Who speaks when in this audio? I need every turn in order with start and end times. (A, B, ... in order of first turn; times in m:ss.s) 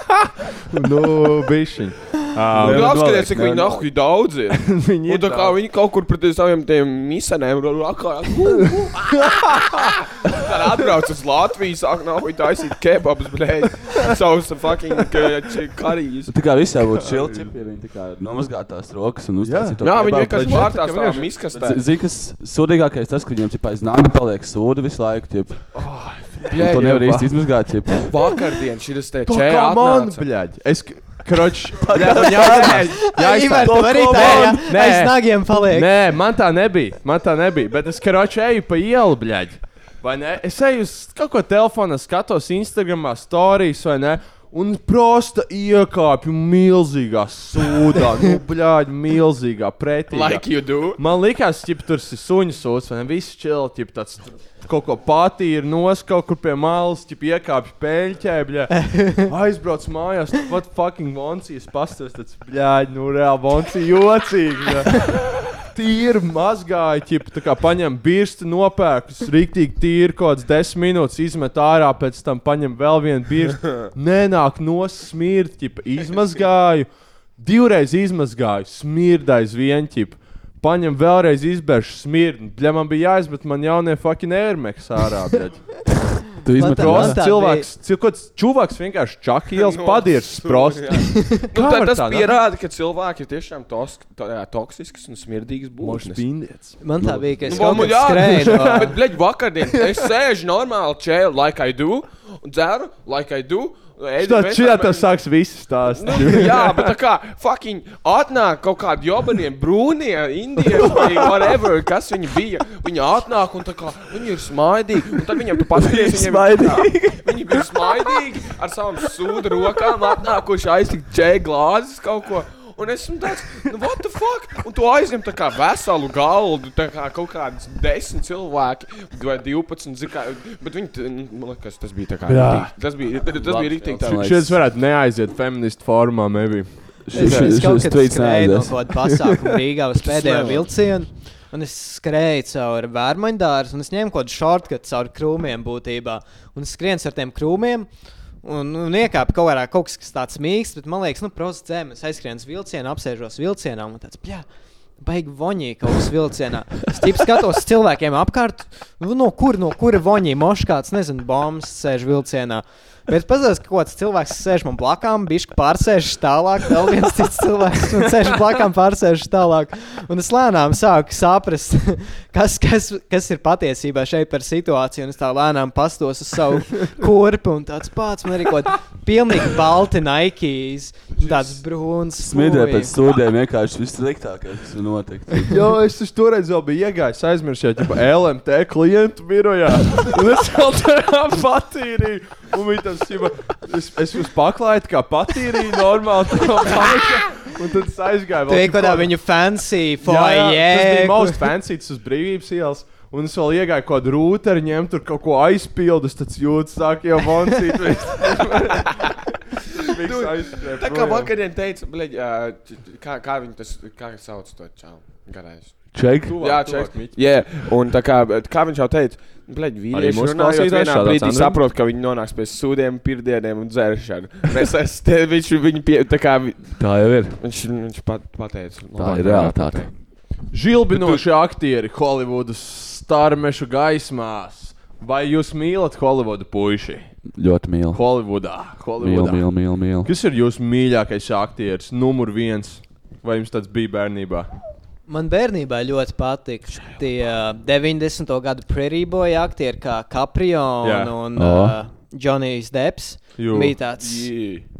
0:00.7-0:03.1 A
0:02.5-0:03.9 B
0:02.6-0:16.4 C
0:04.6-0:05.6 A
0:09.3-0:09.7 A
0:16.3-0:20.7 B
0:17.0-0:17.5 A
0:19.4-0:21.3 A
0:19.8-0:21.8 C
0:21.5-0:25.9 B
0:25.8-0:27.5 A
0:26.5-0:28.1 B
0:26.5-0:27.3 C
0:28.0-0:30.2 C
0:29.2-1:32.3 A
0:31.8-0:34.6 B
0:32.8-0:35.9 D
0:50.1-0:51.0 C
1:26.4-1:27.2 B
1:26.6-1:27.7 D
1:29.6-1:36.2 C
1:35.8-1:39.0 A
1:36.8-1:38.9 D
1:37.0-1:37.8 B
1:37.5-1:45.1 C
1:44.2-1:46.9 A
1:45.9-2:14.4 C
1:50.8-1:51.3 A
1:55.8-1:57.2 B
1:55.9-1:57.1 A
2:12.3-2:12.7 A
2:13.2-2:14.6 B
2:14.1-2:17.1 A
2:17.0-2:18.9 B
2:17.1-2:27.9 D
2:20.0-2:20.8 C
2:28.4-2:34.5 D
2:35.0-3:03.0 D
3:02.2-3:05.6 B
3:05.5-3:19.1 A
3:18.5-3:21.4 D
3:20.0-3:31.3 A
3:30.0-3:49.9 C
3:35.9-3:36.4 B
3:36.2-3:37.5 A
3:39.9-3:41.6 A
3:46.8-3:47.4 B
3:49.0-3:49.9 B
3:50.5-3:57.2 A
3:50.9-3:51.2 C
3:57.3-4:00.1 B
3:57.9-4:04.5 A
4:05.1-4:14.4 D
4:10.8-4:11.1 A
4:11.4-4:11.8 B
4:13.4-4:13.8 A
4:13.9-4:14.7 C